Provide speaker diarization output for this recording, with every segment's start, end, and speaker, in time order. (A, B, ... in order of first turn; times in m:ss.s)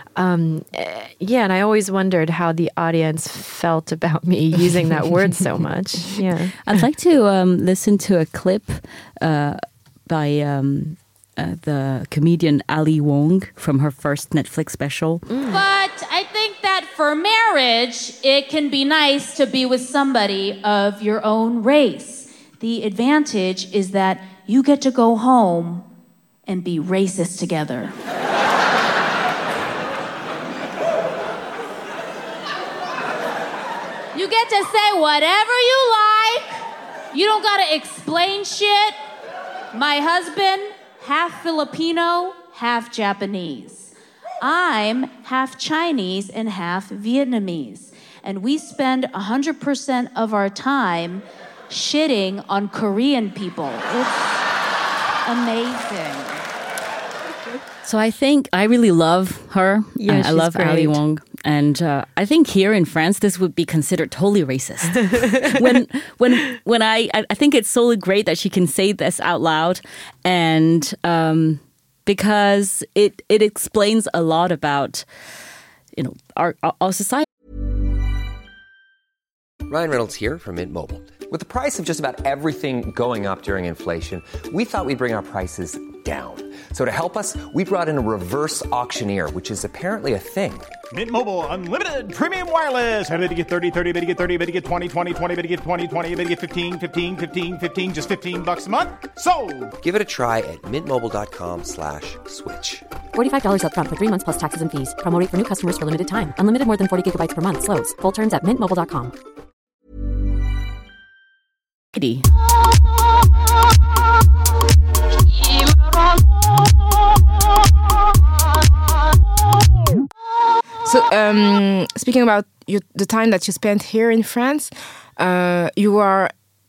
0:00.2-0:06.6 A
0:06.7-0:15.3 B
0:15.3-0:15.6 A
0:15.5-0:25.9 C
0:26.5-0:27.9 C
0:34.1-0:39.0 C
0:39.7-0:54.4 C
0:55.3-0:56.4 C
0:57.8-1:15.0 B
1:00.0-1:01.0 A
1:16.0-1:17.3 B
1:19.7-1:30.7 D
1:30.9-1:39.7 E
1:39.8-1:43.0 D
1:43.1-1:49.1 F
1:51.9-1:52.3 B
2:00.8-2:06.3 G